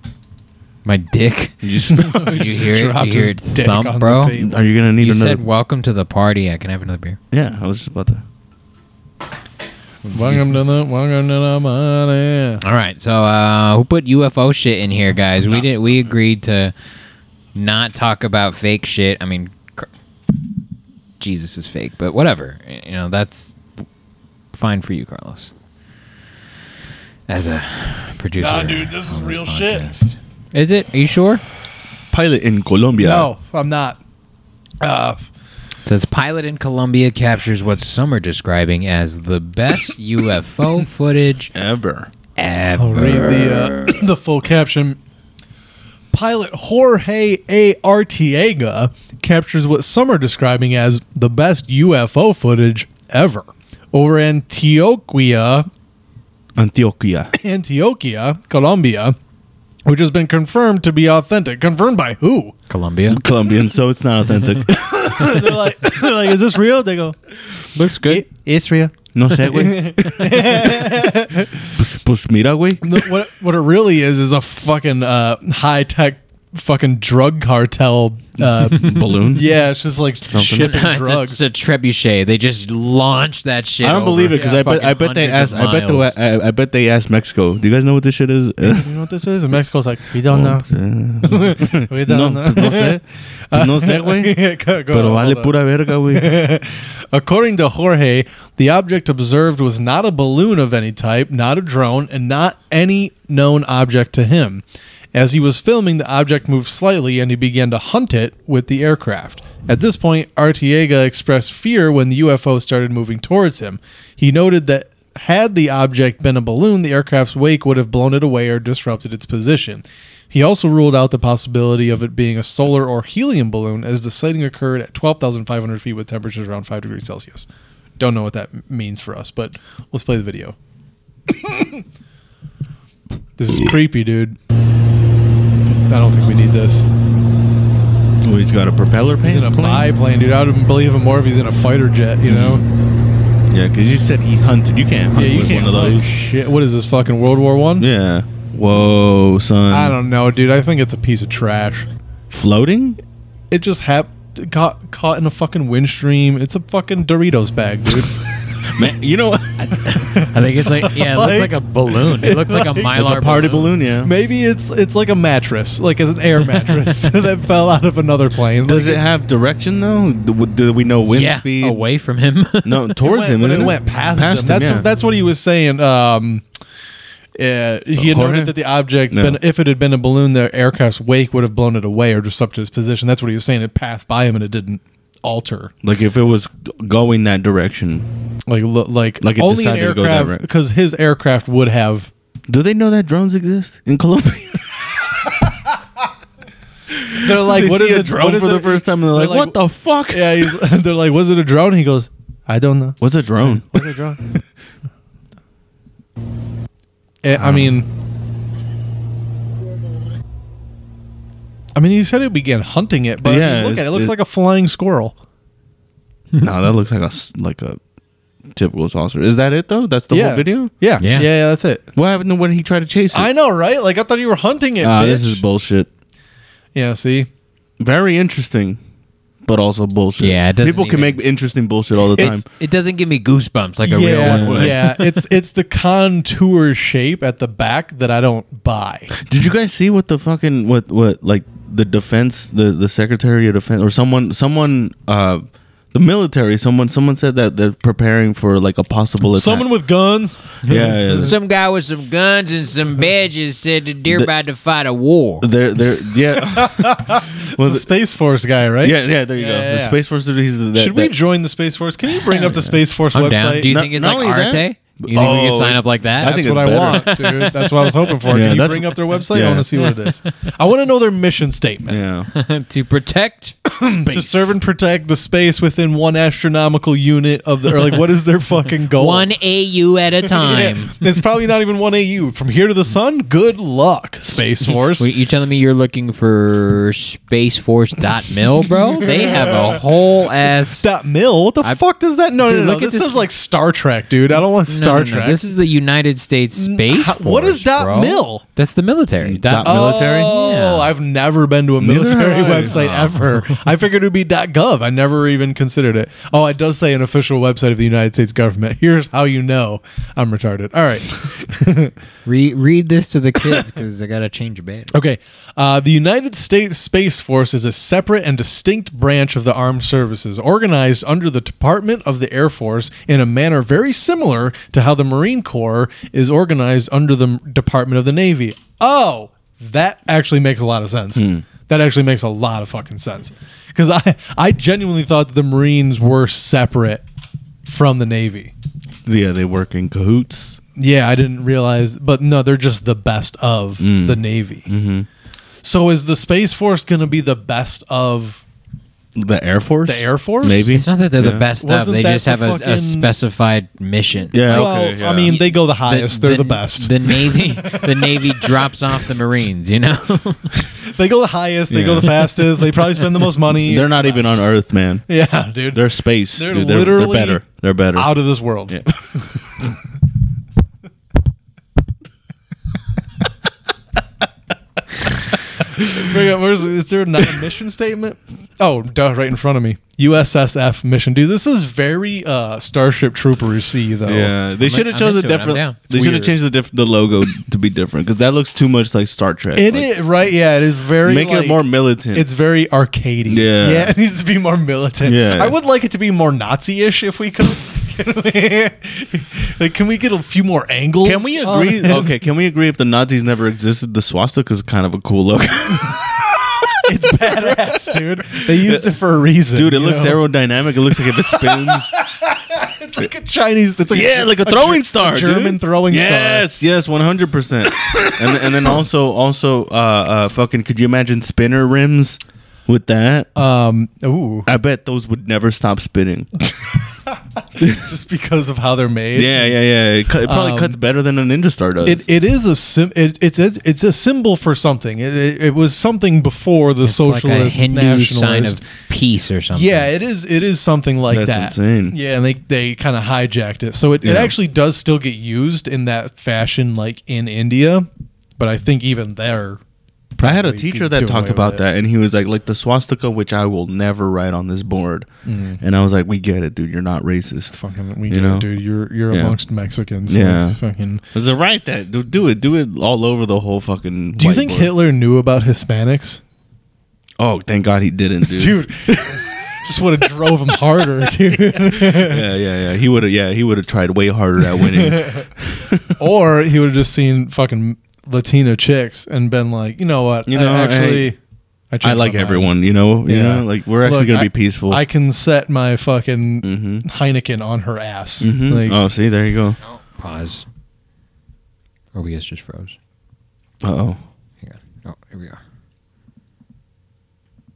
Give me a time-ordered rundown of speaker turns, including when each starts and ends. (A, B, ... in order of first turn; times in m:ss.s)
0:00.8-0:01.6 A
0:01.6-0:02.6 B
0:02.0-0:04.6 C
0:02.1-0:04.3 A
0:04.4-0:05.4 B
0:05.0-0:07.2 A
0:07.3-0:08.2 B
0:10.0-0:10.4 A
0:10.1-0:12.6 C
0:12.6-0:16.7 A
0:17.5-0:19.9 A
0:21.2-0:23.6 A
0:24.5-0:25.5 A
0:27.3-0:31.4 A
0:28.4-0:29.9 C
0:32.1-0:33.3 B
0:33.0-0:34.0 C
0:34.8-0:35.2 C
0:35.8-0:41.5 A
0:41.5-0:42.1 B
0:42.4-0:43.9 A
0:42.8-0:45.0 C
0:46.1-0:55.7 C
0:56.6-0:57.3 B
0:57.4-0:59.2 C
0:59.8-1:02.5 C
1:02.7-1:03.2 A
1:03.1-1:05.6 B
1:04.8-1:07.2 C
1:07.7-1:08.2 A
1:08.0-1:11.7 C
1:09.1-1:11.1 B
1:11.7-1:13.1 B
1:12.8-1:21.4 C
1:18.4-1:19.5 B
1:20.3-1:20.8 B
1:20.4-1:26.2 A
1:23.8-1:28.9 B
1:24.3-1:24.6 C
1:28.6-1:30.6 C
1:30.3-1:34.4 B
1:31.2-1:44.6 C
1:34.9-1:36.4 B
1:45.1-2:07.4 C
2:08.0-2:10.5 C
2:11.3-2:11.8 C
2:13.4-2:14.4 C
2:13.5-2:13.7 B
2:15.9-2:16.8 C
2:18.2-2:19.9 B
2:19.2-2:22.6 C
2:22.2-2:22.6 B
2:23.5-2:26.1 B
2:25.1-2:27.9 C
2:27.8-2:30.0 B
2:29.7-2:31.9 C
2:32.3-2:33.0 B
2:33.5-2:38.1 C
2:38.6-2:40.0 B
2:39.8-2:43.6 A
2:39.9-2:49.0 C
2:42.9-2:44.1 B
2:48.6-2:51.8 B
2:51.1-2:52.9 A
2:52.6-2:54.9 B
2:53.0-2:56.4 C
2:57.4-3:05.7 C
2:58.0-2:58.6 B
2:59.1-2:59.4 B
3:05.8-3:08.0 B
3:08.5-3:12.1 C
3:09.2-3:10.4 B
3:12.5-3:14.6 B
3:16.9-3:20.5 B
3:17.2-3:24.4 C
3:23.0-3:23.8 B
3:27.2-3:27.9 C
3:27.3-3:27.8 B
3:31.8-3:35.1 C
3:33.2-3:34.1 B
3:36.4-3:37.8 B
3:38.5-3:40.7 B
3:40.1-3:41.8 C
3:41.0-3:41.3 A
3:42.0-3:43.3 B
3:43.1-3:45.4 C
3:44.8-3:45.9 B
3:46.7-3:47.3 C
3:47.8-3:48.8 B
3:49.4-3:52.4 B
3:50.2-3:51.2 A
3:52.1-3:52.4 C
3:52.2-3:55.0 A
3:53.8-3:59.2 C
3:54.2-3:54.8 B
3:59.2-4:09.7 B
4:09.3-4:11.3 C
4:10.6-4:11.3 B
4:10.7-4:15.5 A
4:15.4-4:17.9 B
4:16.4-4:20.0 C
4:18.8-4:21.1 B
4:20.7-4:23.7 C
4:22.3-4:22.6 A
4:23.1-4:26.4 A
4:23.6-4:27.6 B
4:26.2-4:32.0 C
4:28.2-4:29.7 B
4:31.9-4:32.3 B
4:32.3-4:33.7 A
4:33.7-4:39.3 C
4:38.9-4:41.0 A
4:40.3-4:45.1 C
4:44.6-4:50.9 A
4:49.0-4:49.8 C
4:50.8-4:55.5 C
4:52.4-4:53.3 A
4:54.7-5:00.9 A
4:56.6-4:58.4 C
4:59.2-5:00.4 B
4:59.6-5:11.9 C
5:01.8-5:02.8 B
5:02.6-5:03.6 A
5:12.2-5:14.9 A
5:14.9-5:37.0 C
5:31.1-5:31.4 B
5:37.6-5:38.5 C
5:39.0-5:40.6 B
5:40.8-5:44.7 C
5:43.8-5:45.1 B
5:45.6-5:48.4 C
5:49.1-5:51.4 B
5:49.8-5:50.8 C
5:50.7-5:54.5 A
5:51.6-5:53.1 C
5:54.3-5:55.4 B
5:54.4-5:58.3 C
5:55.2-6:00.5 A
6:00.8-6:04.4 C
6:01.7-6:02.4 B
6:03.4-6:05.0 B
6:05.1-6:08.8 C
6:05.7-6:08.1 B
6:08.7-6:09.2 B
6:15.8-6:24.3 C
6:24.0-6:29.9 B
6:24.6-6:25.8 A
6:25.9-6:26.3 C
6:29.5-6:42.1 C
6:31.0-6:32.2 B
6:33.3-6:33.9 B
6:35.0-6:35.5 B
6:41.0-6:46.7 B
6:46.8-6:50.2 C
6:47.3-6:48.9 B
6:49.5-6:51.9 B
6:51.2-6:56.5 C
6:53.9-7:03.3 B
7:03.4-7:04.5 C
7:04.4-7:06.3 B
7:07.1-7:09.6 C
7:07.6-7:07.9 B
7:09.1-7:12.0 B
7:10.2-7:10.8 C
7:11.8-7:18.6 C
7:16.8-7:19.9 A
7:19.5-7:29.6 C
7:21.1-7:22.0 B
7:24.0-7:24.4 B
7:30.2-7:31.6 C
7:30.2-7:35.1 B
7:35.2-7:35.6 C
7:35.6-7:37.6 B
7:37.5-7:41.0 C
7:38.1-7:38.5 B
7:39.1-7:39.4 B
7:40.1-7:40.6 B
7:41.1-7:44.7 B
7:44.2-7:46.2 C
7:47.2-7:49.2 B
7:48.3-7:52.3 C
7:51.7-7:56.0 B
7:54.6-7:55.2 C
7:56.0-8:01.2 C
8:00.3-8:01.1 B
8:01.7-8:08.8 C
8:01.8-8:04.8 B
8:06.4-8:06.8 B
8:08.2-8:09.6 B
8:09.8-8:10.4 A
8:11.9-8:12.8 A
8:13.6-8:14.0 B
8:14.4-8:15.4 A